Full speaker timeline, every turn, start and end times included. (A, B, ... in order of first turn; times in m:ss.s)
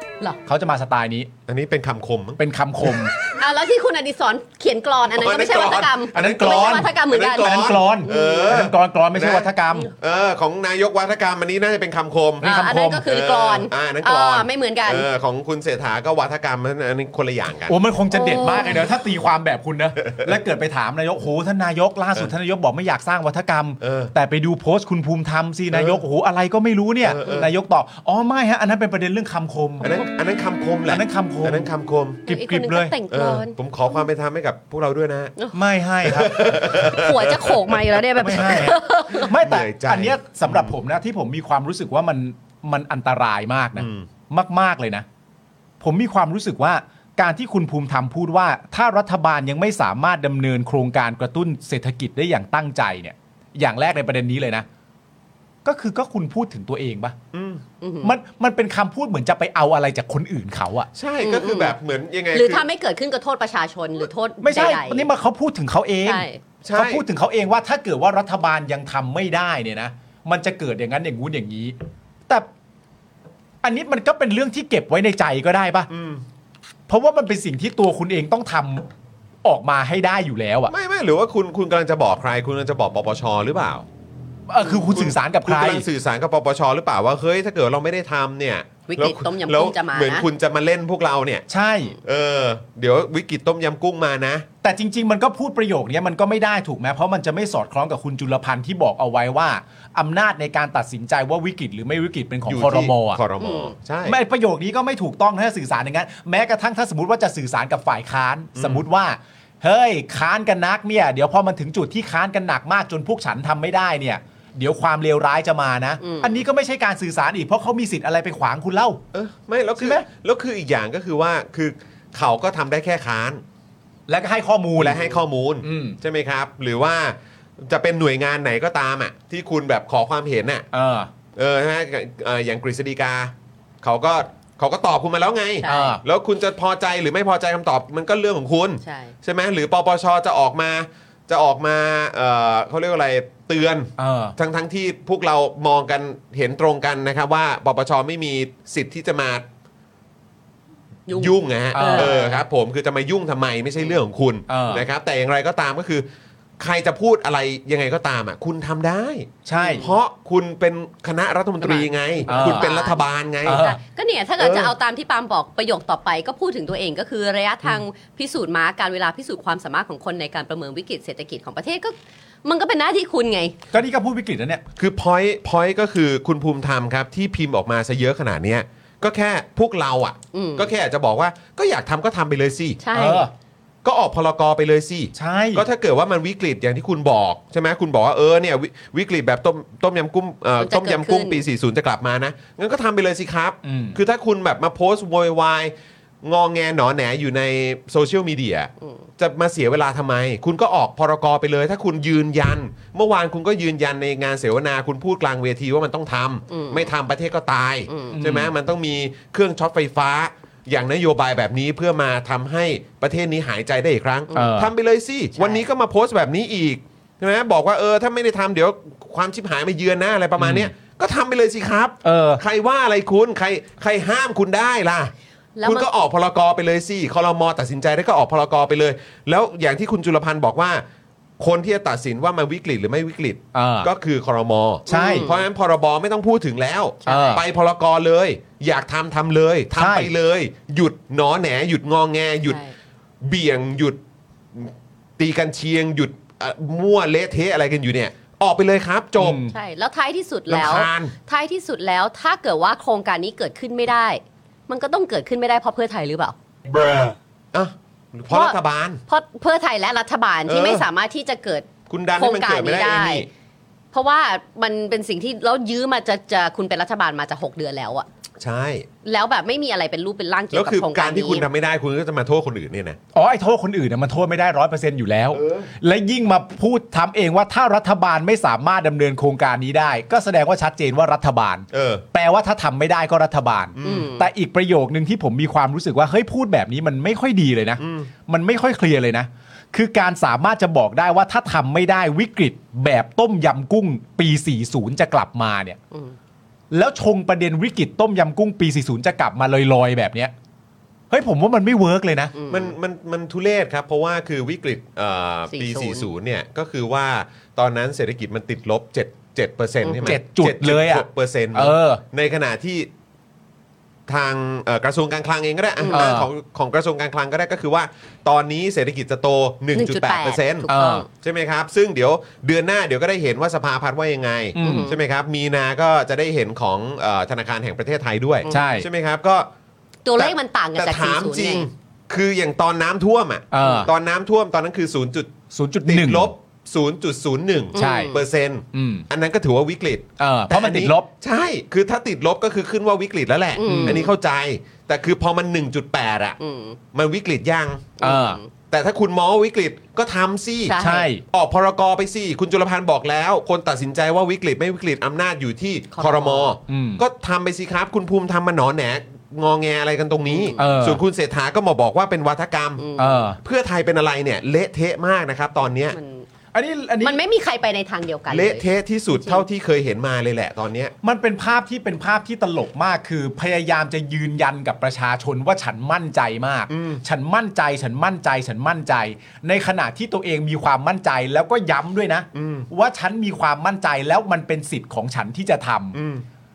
0:00.5-0:01.3 A
0:01.5-0:03.0 B
0:02.4-0:03.1 A
0:03.4-0:08.6 C
0:05.1-0:12.5 B
0:06.1-0:09.9 A
0:12.4-0:13.0 A
0:12.4-0:15.1 C
0:13.0-0:17.8 B
0:17.7-0:30.0 A
0:18.1-0:18.8 C
0:20.1-0:20.3 B
0:23.8-0:24.1 B
0:25.7-0:26.0 B
0:27.0-0:27.5 B
0:29.8-0:32.3 B
0:30.9-0:31.7 A
0:32.3-0:33.0 A
0:32.3-0:33.6 C
0:33.1-0:35.3 B
0:35.5-0:36.6 A
0:36.0-0:40.8 B
0:36.8-0:39.3 C
0:38.2-0:45.0 A
0:43.8-0:44.1 B
0:45.8-0:54.7 A
0:55.6-0:57.2 A
0:57.3-0:57.6 B
0:57.8-0:58.1 C
0:58.0-1:00.9 A
1:00.9-1:02.6 B
1:01.2-1:01.8 C
1:02.3-1:05.1 C
1:04.4-1:11.8 A
1:06.0-1:06.4 C
1:06.6-1:07.0 B
1:13.6-1:15.9 A
1:15.9-1:16.2 B
1:16.9-1:18.9 A
1:19.4-1:20.7 A
1:20.7-1:23.9 B
1:24.5-1:25.9 A
1:24.6-1:31.5 B
1:28.9-1:30.3 C
1:31.5-1:32.0 A
1:32.0-1:34.5 B
1:34.6-1:43.2 A
1:42.5-1:44.2 B
1:43.4-1:43.7 C
1:44.0-1:59.0 A
1:48.6-1:48.8 B
1:56.0-1:56.4 C
1:59.1-2:03.4 B
1:59.8-2:00.0 A
2:04.1-2:05.1 A
2:04.8-2:10.7 B
2:05.6-2:06.0 A
2:10.7-2:11.1 A
2:11.4-2:29.4 B
2:15.6-2:16.0 C
2:15.6-2:16.0 A
2:18.8-2:19.1 C
2:24.0-2:24.4 A
2:31.1-2:32.4 C
2:31.1-2:36.1 B
2:31.7-2:32.2 A
2:34.5-2:34.9 A
2:36.6-2:43.7 B
2:39.4-2:39.9 A
2:39.6-2:39.9 C
2:41.6-2:53.6 C
2:42.3-2:42.7 A
2:43.4-2:43.8 A
2:44.4-2:44.7 B
2:53.7-2:54.6 A
2:54.8-3:02.8 B
3:00.3-3:00.7 C
3:02.8-3:03.3 C
3:02.9-3:03.3 A
3:03.8-3:45.1 B
3:05.2-3:05.7 A
3:10.6-3:11.4 C
3:13.6-3:14.0 A
3:26.5-3:26.9 C
3:27.9-3:28.2 C
3:28.1-3:28.5 A
3:34.3-3:34.7 A
3:35.4-3:35.6 C
3:40.4-3:40.7 A
3:42.0-3:42.4 A
3:45.6-3:46.0 C
3:45.6-3:50.8 B
3:51.4-4:02.6 B
3:53.5-3:53.9 A
3:54.9-3:55.3 A
3:54.9-3:55.4 C
3:57.0-3:57.4 C
3:57.1-3:57.4 A
3:59.8-4:00.1 A
4:02.5-4:02.7 C
4:03.2-4:04.0 B
4:04.5-4:09.4 B
4:09.2-4:09.5 A
4:09.5-4:16.4 C
4:10.5-4:11.1 B
4:17.5-4:19.0 B
4:18.3-4:18.6 C
4:19.1-4:23.3 C
4:20.5-4:20.9 B
4:21.9-4:23.3 B
4:23.9-4:28.1 C
4:28.4-4:28.9 B
4:29.0-4:31.5 C
4:30.5-4:33.0 B
4:33.1-4:55.8 A
4:35.3-4:35.7 B
4:41.7-4:42.0 B
4:43.8-4:44.1 B
4:43.8-4:44.3 C
4:47.8-4:48.1 B
4:56.7-5:00.3 A
5:01.1-5:02.3 A
5:02.4-5:02.8 C
5:02.5-5:12.9 B
5:05.5-5:06.1 C
5:09.8-5:10.2 C
5:10.0-5:12.0 A
5:14.1-5:29.5 B
5:15.8-5:16.1 C
5:15.9-5:16.3 A
5:19.8-5:21.1 C
5:20.7-5:21.0 A
5:24.6-5:24.9 A
5:24.6-5:25.0 C
5:28.5-5:28.9 A
5:30.0-5:31.7 C
5:30.2-5:35.3 B
5:33.5-5:33.9 A
5:35.5-5:36.3 A
5:35.8-5:46.4 B
5:37.7-5:38.2 C
5:37.8-5:38.1 A
5:38.7-5:39.1 A
5:40.2-5:41.1 A
5:43.6-5:44.1 C
5:43.6-5:44.0 A
5:46.4-5:46.8 C
5:46.9-5:48.0 B
5:48.0-5:48.4 A
5:48.0-5:48.5 C
5:48.7-5:50.8 B
5:50.7-5:51.1 C
5:50.8-5:51.2 A
5:51.3-6:02.8 B
5:55.9-5:56.6 C
5:56.7-5:57.0 A
6:00.3-6:00.6 C
6:00.6-6:01.0 A
6:02.8-6:03.2 C
6:03.0-6:03.4 A
6:03.4-6:06.0 B
6:05.9-6:06.3 C
6:06.5-6:07.2 A
6:07.0-6:09.4 C
6:08.3-6:10.9 B
6:11.0-6:26.0 A
6:16.7-6:17.0 B
6:22.3-6:22.7 B
6:25.9-6:26.2 B